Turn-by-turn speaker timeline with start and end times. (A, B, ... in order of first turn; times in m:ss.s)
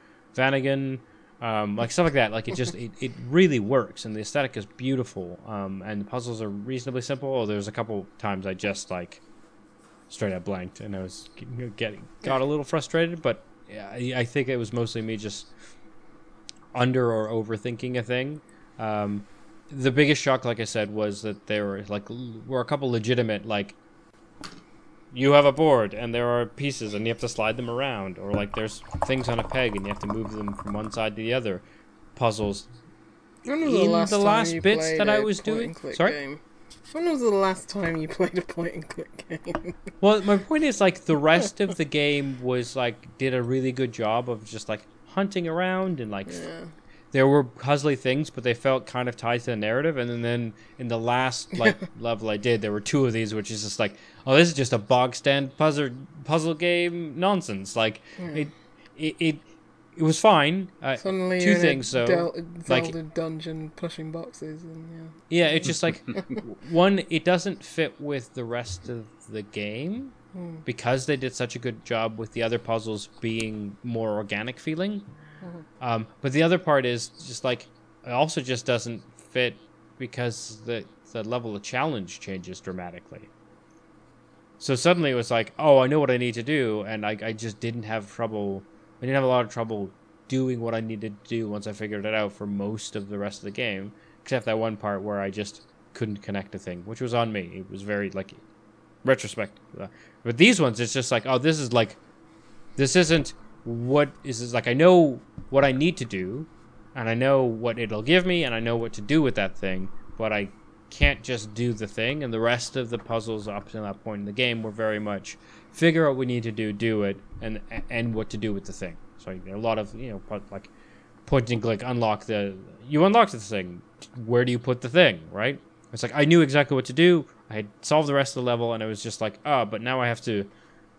0:00.3-0:09.2 A
0:10.1-0:15.5 A
0:16.7-0:23.8 A
0:25.1-0:31.6 A
0:32.2-0:32.7 A
0:33.4-0:36.4 B
0:33.6-0:36.2 A
0:36.9-0:39.8 B
0:40.0-0:46.4 A
0:46.3-0:46.7 B
0:47.1-0:59.4 A
0:58.2-0:58.5 B
1:00.0-1:02.9 A
1:01.0-1:06.3 B
1:05.3-1:15.1 A
1:10.3-1:10.6 B
1:15.8-1:23.3 A
1:24.6-1:38.4 A
1:39.0-1:42.0 A
1:42.8-2:00.7 A
2:01.2-2:10.5 A